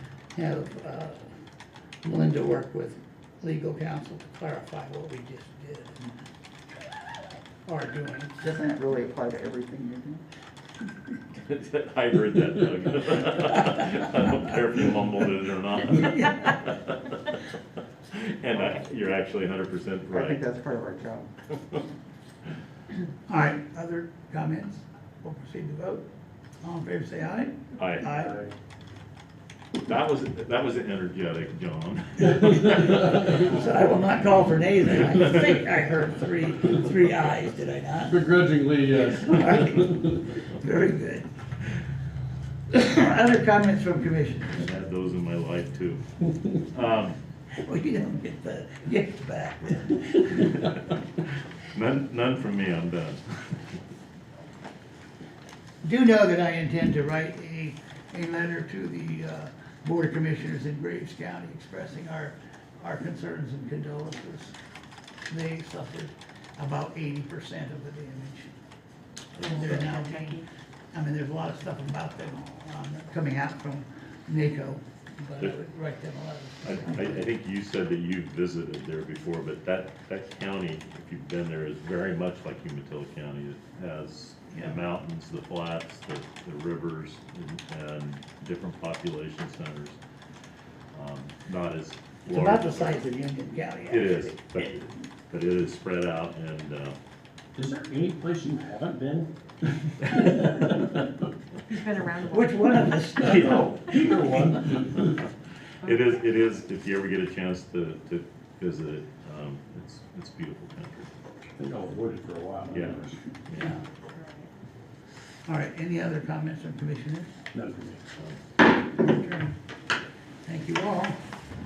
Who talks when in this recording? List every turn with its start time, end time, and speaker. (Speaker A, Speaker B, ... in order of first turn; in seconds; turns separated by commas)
Speaker A: 0.3-1.3, Speaker A: 2.0-6.1, Speaker A: 7.7-8.8, Speaker B: 8.8-10.2, Speaker C: 11.3-17.1, Speaker A: 16.0-16.4, Speaker C: 18.1-20.5, Speaker B: 20.2-21.3, Speaker A: 23.3-26.0, Speaker A: 26.6-28.4, Speaker C: 27.8-28.1, Speaker C: 29.8-33.0, Speaker A: 32.7-38.3, Speaker D: 38.1-39.8, Speaker A: 39.2-41.3, Speaker A: 42.7-44.6, Speaker C: 44.5-46.0, Speaker C: 46.5-47.2, Speaker A: 47.6-50.8, Speaker C: 50.4-53.6, Speaker A: 55.8-64.5, Speaker A: 65.3-68.5, Speaker C: 69.3-69.9, Speaker A: 69.4-70.4, Speaker E: 69.4-70.5, Speaker A: 70.9-77.3, Speaker C: 76.6-90.0, Speaker A: 84.5-84.8, Speaker C: 90.9-93.0, Speaker A: 92.2-94.7, Speaker C: 93.9-97.0, Speaker D: 97.5-99.1, Speaker B: 98.5-99.2, Speaker E: 101.7-102.8, Speaker A: 102.3-104.5, Speaker D: 103.6-105.2, Speaker C: 105.8-111.1, Speaker D: 111.6-113.2, Speaker C: 112.7-113.7, Speaker A: 113.5-113.8, Speaker E: 114.0-114.5, Speaker A: 115.5-117.3, Speaker D: 117.6-118.0, Speaker A: 118.9-119.5, Speaker A: 120.5-121.2